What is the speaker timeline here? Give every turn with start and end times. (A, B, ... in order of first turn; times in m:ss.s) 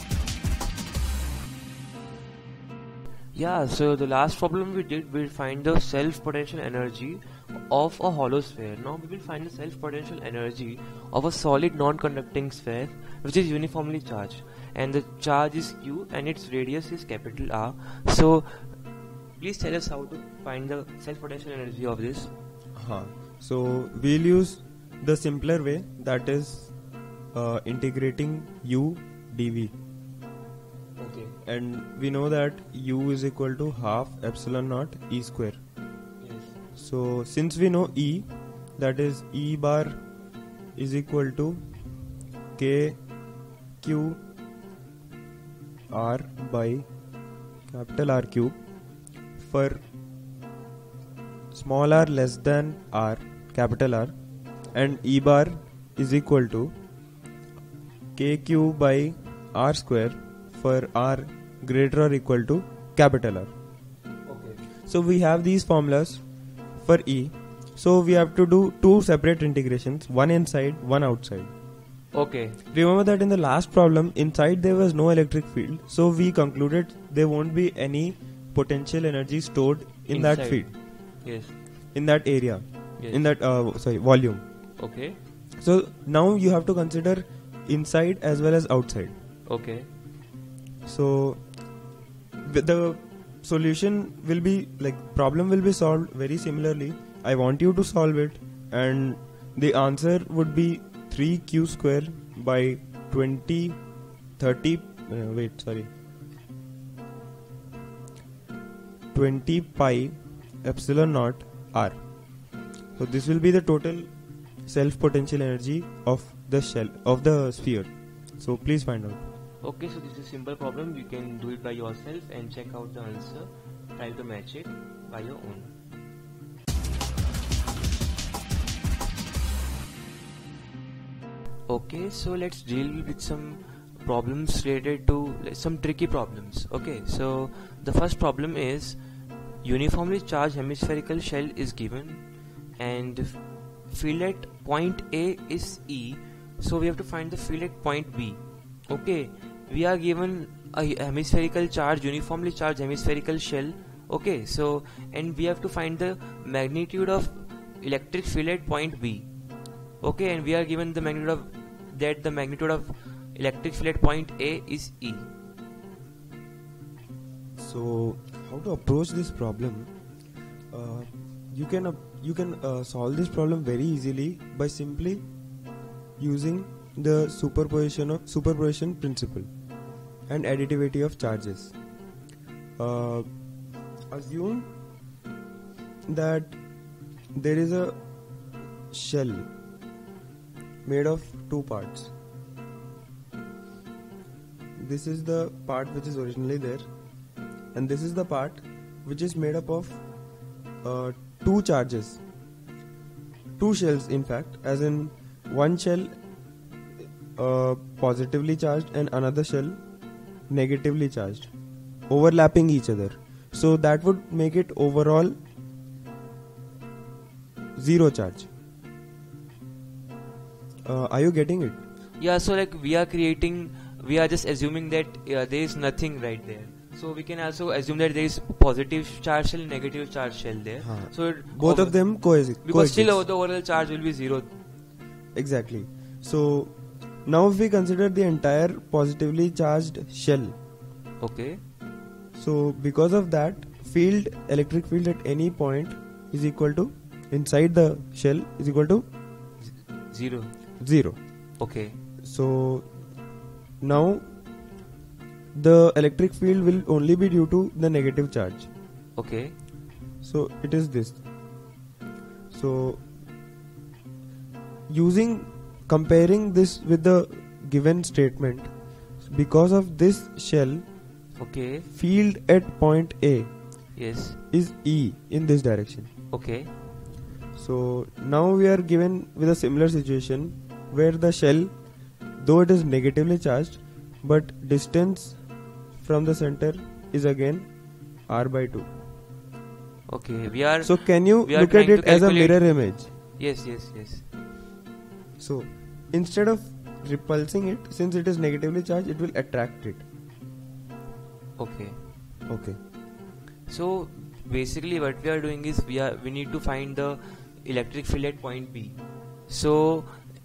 0:03.4-0:18.7 A
0:19.4-0:22.3 A
0:22.8-0:26.7 B
0:27.3-0:29.7 B
0:31.0-0:31.4 A
0:31.4-0:35.6 B
0:36.2-0:36.5 A
0:36.8-0:38.2 B
0:38.8-0:40.0 B
0:40.8-0:41.6 B
0:42.6-0:43.0 B
0:43.8-0:44.2 B
0:45.9-0:46.9 B
0:47.7-0:48.6 B
0:49.4-0:49.8 B
0:51.5-0:54.1 B
0:54.7-0:55.0 A
0:54.7-0:56.7 B
0:58.2-1:03.5 B
1:04.3-1:04.6 A
1:04.9-1:06.2 B
1:06.8-1:11.5 B
1:12.1-1:12.6 A
1:12.7-1:20.7 B
1:20.1-1:20.7 A
1:21.2-1:21.6 A
1:21.9-1:24.4 B
1:24.8-1:25.2 A
1:25.6-1:29.1 B
1:29.5-1:29.9 A
1:30.9-1:31.4 B
1:32.4-1:43.8 B
1:44.4-1:45.9 B
1:49.1-1:52.0 B
1:53.0-1:54.1 B
1:54.7-1:59.2 B
1:59.6-2:05.7 A
2:11.7-2:19.0 A
2:19.6-2:22.2 A
2:22.8-2:39.3 A
2:40.0-2:45.3 A
2:47.6-2:49.9 B
2:50.7-2:55.2 B
2:56.2-2:59.5 B
3:00.3-3:01.7 B
3:02.8-3:03.3 B
3:04.1-3:04.7 B
3:06.1-3:06.6 B
3:07.4-3:08.0 B
3:08.9-3:09.5 B
3:10.8-3:12.1 B
3:14.8-3:16.9 B
3:17.7-3:20.0 B
3:20.8-3:22.2 B
3:23.6-3:26.1 B
3:27.4-3:29.8 B
3:30.5-3:31.5 B
3:32.1-3:35.4 B
3:37.8-3:38.5 B
3:40.8-3:41.8 B
3:42.2-3:52.1 A
3:50.8-3:53.2 B
3:52.6-3:54.5 A
3:55.4-4:00.6 B
4:01.2-4:01.6 A
4:02.4-4:09.0 B
4:09.6-4:10.5 A
4:10.8-4:11.2 B
4:11.6-4:12.0 A
4:12.2-4:12.9 B
4:13.8-4:14.2 B
4:15.6-4:18.7 B
4:19.2-4:19.6 A
4:20.2-4:21.2 B
4:22.5-4:23.0 B
4:24.9-4:28.7 B
4:29.2-4:30.8 B
4:31.4-4:31.8 A
4:31.9-4:33.5 B
4:34.0-4:34.4 A
4:34.5-4:36.1 B
4:36.3-4:36.7 A
4:37.5-4:41.7 B
4:42.4-4:45.4 B
4:46.0-4:47.7 B
4:48.3-4:48.9 B
4:50.1-4:52.6 A
4:50.8-4:53.1 B
4:53.4-4:54.3 A
4:55.4-5:00.0 B
5:01.6-5:02.0 A
5:02.5-5:02.8 B
5:03.7-5:10.2 A